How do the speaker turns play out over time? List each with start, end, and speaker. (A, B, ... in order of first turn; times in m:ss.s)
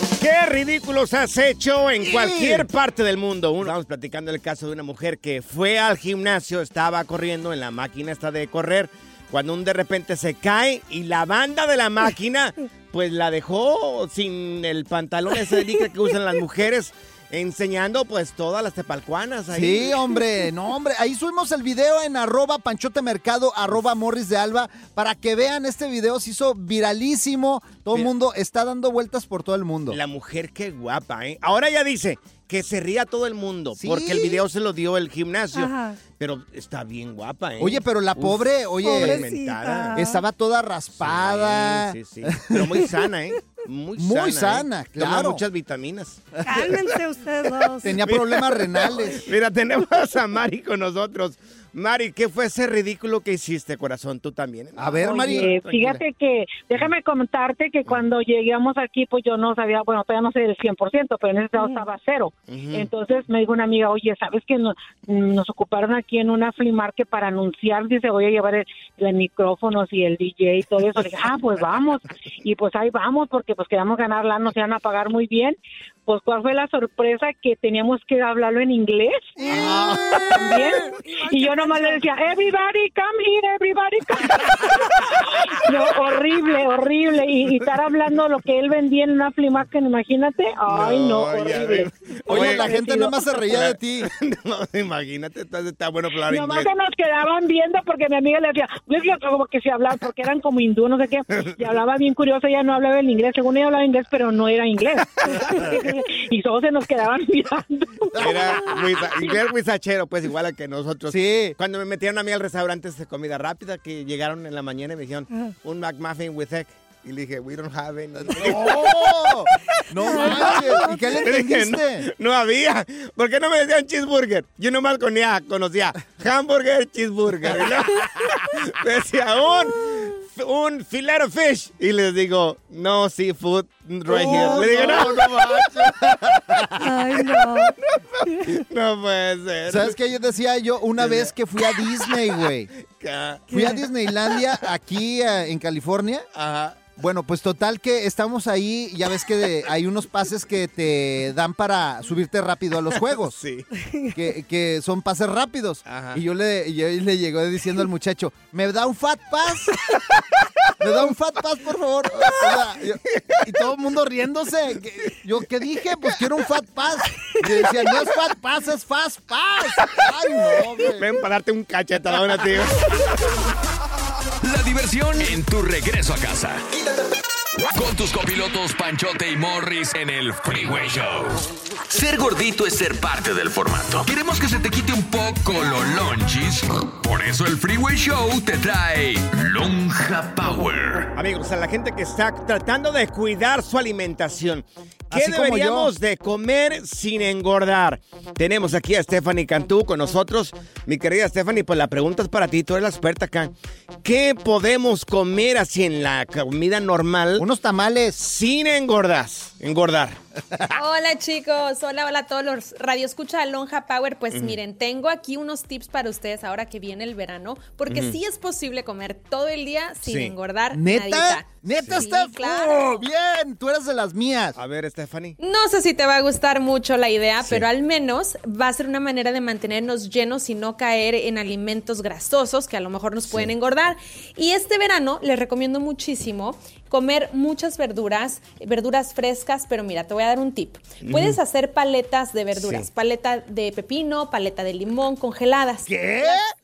0:00.2-0:20.1 A
0:02.0-0:02.7 B
0:19.5-0:30.0 B
0:29.9-0:40.0 A
0:33.8-0:34.4 B
0:35.5-0:36.0 C
0:37.6-0:39.3 B
0:38.8-0:40.2 C
0:40.0-0:42.8 B
0:41.0-0:46.9 A
0:44.0-0:45.4 B
0:46.4-0:48.0 C
0:47.8-0:49.2 B
0:48.0-0:55.9 A
0:54.8-0:56.0 B
0:55.0-1:15.6 D
1:02.5-1:02.9 A
1:16.1-1:19.3 D
1:19.4-1:20.8 B
1:19.4-1:22.1 C
1:20.3-1:33.2 D
1:30.7-1:36.7 A
1:32.2-1:34.1 B
1:36.3-1:48.6 D
1:48.2-1:59.4 A
1:51.1-1:51.6 B
1:58.3-2:02.1 B
2:00.0-2:01.2 C
2:00.0-2:17.6 A
2:14.1-2:16.7 B
2:14.3-2:14.7 C
2:16.8-2:17.7 C
2:18.2-2:20.0 A
2:19.7-2:22.7 B
2:21.0-2:23.5 A
2:23.5-2:23.8 C
2:23.5-2:26.2 B
2:26.3-2:26.8 A
2:27.0-2:33.4 B
2:32.9-2:33.6 A
2:33.7-2:34.2 C
2:34.1-2:39.8 B
2:35.9-2:36.2 A
2:39.9-2:40.4 A
2:40.8-2:51.1 B
2:42.2-2:42.6 A
2:51.0-2:53.3 A
2:54.4-2:56.6 E
2:57.7-3:11.1 E
3:11.1-3:23.5 A
3:15.1-3:15.9 B
3:24.0-3:27.5 A
3:27.4-3:28.2 B
3:28.2-3:30.2 A
3:30.7-3:43.0 F
3:34.3-3:34.6 A
3:37.9-3:38.2 A
3:40.0-3:40.3 A
3:40.7-3:44.6 B
3:41.7-3:42.1 A
3:44.5-3:45.4 A
3:45.4-4:06.4 F
4:01.0-4:01.4 A
4:02.5-4:02.9 A
4:05.8-4:06.4 B